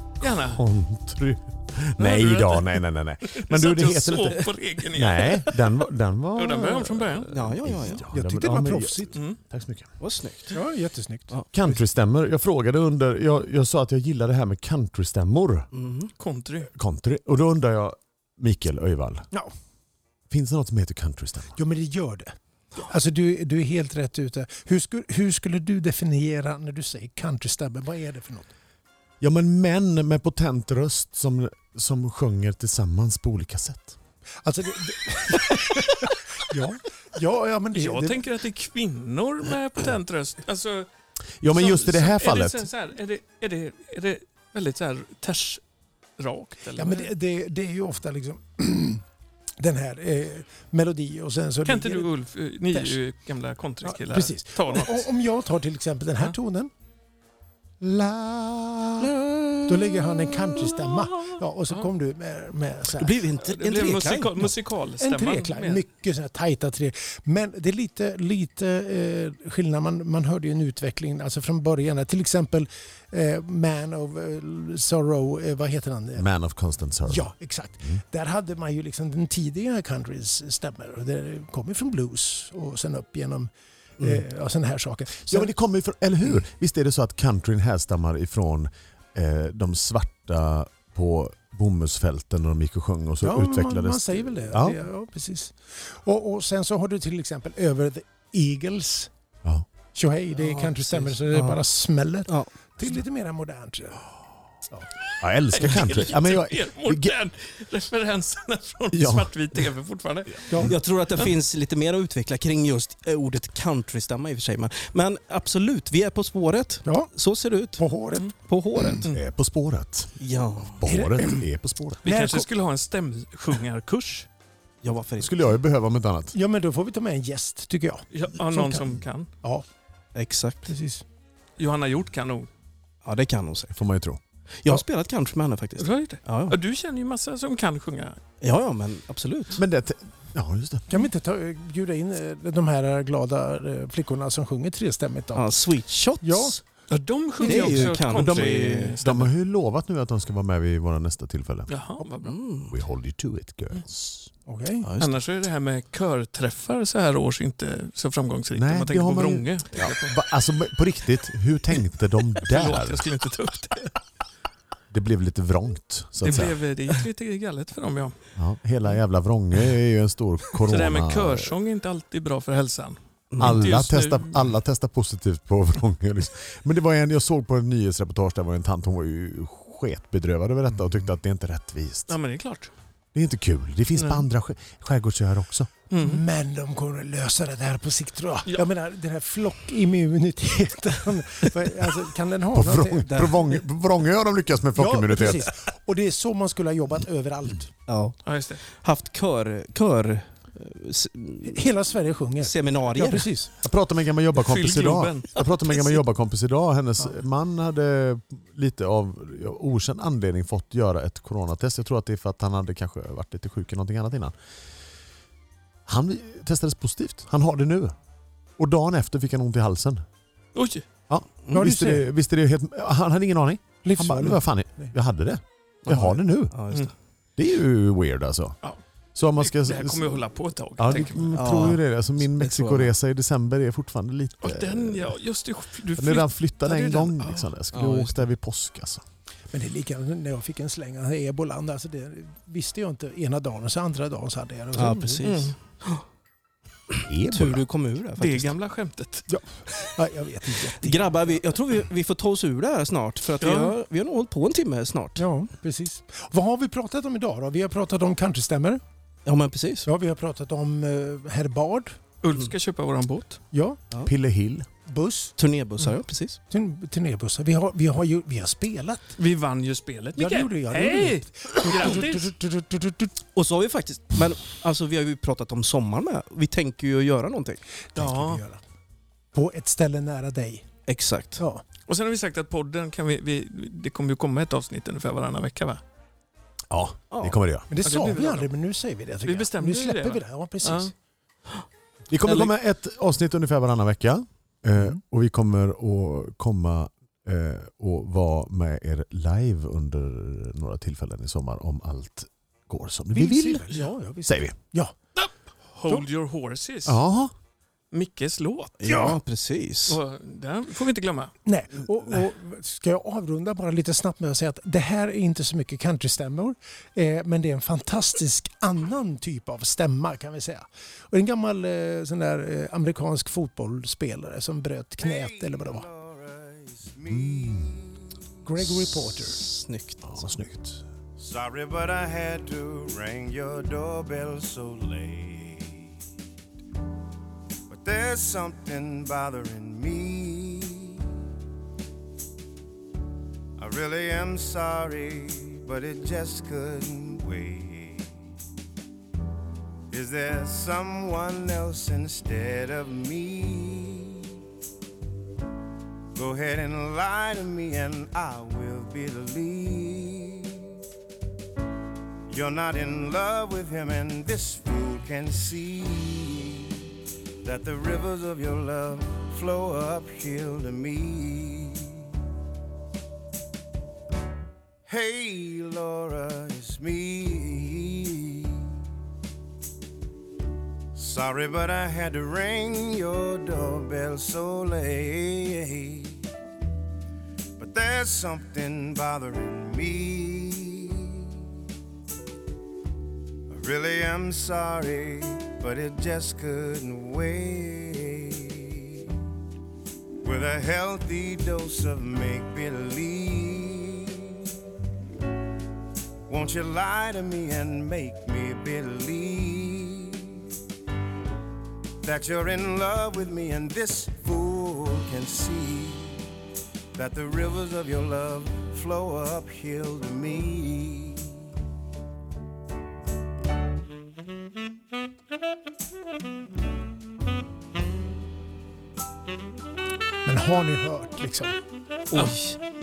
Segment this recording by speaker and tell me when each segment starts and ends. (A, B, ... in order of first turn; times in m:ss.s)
0:00.2-0:00.6 A
0:00.2-0:10.0 B
0:02.0-0:05.7 A
0:06.4-0:07.4 A
0:07.3-0:08.1 C
0:08.1-0:09.2 D
0:10.0-0:10.6 C
0:10.5-0:11.8 D
0:11.5-0:15.7 B
0:15.7-0:16.1 C
0:16.2-0:16.7 A
0:16.7-0:19.2 B
0:20.3-0:21.6 B
0:21.6-0:28.5 D
0:29.2-0:34.0 B
0:34.4-0:38.2 D
0:37.7-0:40.9 A
0:41.4-0:42.7 B
0:41.5-0:45.6 A
0:46.2-0:47.1 A
0:46.8-0:49.0 D
0:49.6-0:52.1 D
0:51.6-0:55.0 A
0:52.7-0:53.0 D
0:53.8-0:56.7 D
0:57.8-0:59.1 D
0:59.0-1:01.0 C
0:59.7-1:03.2 D
1:02.9-1:04.5 C
1:03.4-1:05.9 A
1:05.0-1:16.3 D
1:16.2-1:18.0 B
1:17.0-1:25.5 D
1:25.3-1:34.8 B
1:33.2-1:39.1 D
1:39.9-1:44.1 D
1:40.3-1:41.6 C
1:42.3-1:43.0 C
1:45.2-1:47.1 B
1:45.5-1:50.6 A
1:48.9-1:49.7 B
1:50.5-1:50.8 D
1:50.6-1:57.8 C
1:56.8-1:57.1 D
1:57.8-1:59.0 D
1:58.4-1:59.0 C
1:59.1-2:02.0 B
2:00.2-2:00.9 C
2:00.8-2:01.4 D
2:02.0-2:02.5 D
2:02.0-2:04.3 A
2:04.8-2:05.5 C
2:05.2-2:06.4 B
2:06.3-2:09.7 D
2:08.1-2:09.3 A
2:10.1-2:10.7 C
2:10.7-2:11.0 D
2:11.6-2:12.5 A
2:13.0-2:13.8 C
2:13.7-2:14.2 B
2:14.6-2:16.6 C
2:15.8-2:18.2 A
2:18.4-2:19.6 C
2:19.6-2:20.9 B
2:20.9-2:25.5 D
2:25.4-2:26.6 C
2:26.2-2:26.6 D
2:26.9-2:29.3 A
2:27.4-2:29.0 C
2:27.6-2:31.7 B
2:31.7-2:32.4 A
2:32.2-2:32.7 C
2:32.7-2:34.3 B
2:34.4-2:34.9 D
2:34.8-2:35.2 C
2:35.0-2:40.2 A
2:38.5-2:43.1 B
2:42.4-2:44.0 A
2:44.9-2:46.6 B
2:46.2-2:48.1 A
2:48.4-2:51.5 B
2:50.6-2:54.4 A
2:53.3-2:53.6 C
2:53.4-3:02.1 B
3:02.1-3:02.7 A
3:03.1-3:05.7 B
3:04.0-3:04.2 A
3:05.9-3:06.2 A
3:06.0-3:13.2 D
3:12.5-3:15.5 B
3:13.1-3:13.5 C
3:14.7-3:17.7 D
3:17.9-3:21.7 C
3:18.2-3:18.6 A
3:21.4-3:23.5 D
3:22.4-3:23.3 C
3:23.6-3:34.4 B
3:24.3-3:25.9 A
3:35.9-3:38.0 B
3:38.6-3:40.0 B
3:40.6-3:40.9 A
3:41.1-3:46.6 B
3:41.5-3:42.1 D
3:43.8-3:44.9 D
3:45.9-3:46.9 C
3:47.4-3:48.6 B
3:49.1-3:50.2 B
3:49.4-3:51.7 A
3:50.8-3:55.2 B
3:51.3-3:52.9 C
3:54.4-3:57.5 A
3:56.0-3:59.0 B
3:57.7-3:58.1 C
3:59.5-4:05.3 D
4:04.7-4:06.0 C
4:05.2-4:05.6 A
4:07.0-4:07.6 B
4:07.3-4:08.6 C
4:08.2-4:09.3 A
4:09.3-4:11.4 D
4:10.8-4:15.2 C
4:13.4-4:13.7 A
4:15.2-4:18.8 D
4:19.2-4:19.9 C
4:19.8-4:22.0 D
4:22.2-4:23.4 A
4:23.5-4:23.8 D
4:24.0-4:24.7 B
4:24.9-4:25.4 D
4:25.4-4:26.4 C
4:26.5-4:29.2 D
4:29.2-4:32.3 A
4:30.2-4:33.1 D
4:33.3-4:37.6 C
4:38.0-4:38.6 D
4:38.0-4:38.4 A
4:39.3-4:40.7 D
4:40.9-4:41.4 C
4:41.4-4:41.6 D
4:41.9-4:45.8 A
4:46.7-4:47.7 B
4:47.7-4:50.9 D
4:47.8-4:48.5 A
4:49.3-4:50.9 A
4:52.1-5:03.6 B
5:03.1-5:04.9 D
5:04.3-5:04.6 B
5:05.1-5:07.0 A
5:06.8-5:07.3 B
5:07.9-5:08.8 A
5:08.8-5:10.0 C
5:08.9-5:09.2 D
5:09.9-5:11.3 A
5:11.4-5:25.9 D
5:25.0-5:28.0 E
5:27.1-5:27.8 B
5:28.4-5:29.4 D
5:28.7-5:30.3 C
5:30.0-5:30.8 B
5:31.2-5:35.9 E
5:37.7-5:41.0 E
5:43.6-5:48.1 E
5:49.9-5:54.3 E
5:56.1-6:00.7 E
6:02.3-6:06.8 E
6:07.4-6:12.1 E
6:14.9-6:18.6 E
6:21.0-6:26.2 E
6:27.6-6:31.2 E
6:33.5-6:39.1 E
6:40.2-6:44.5 E
6:46.3-6:50.5 E
6:52.0-6:56.3 E
6:57.0-7:01.4 E
7:10.2-7:11.6 D
7:12.1-7:12.6 C
7:12.1-7:12.4 A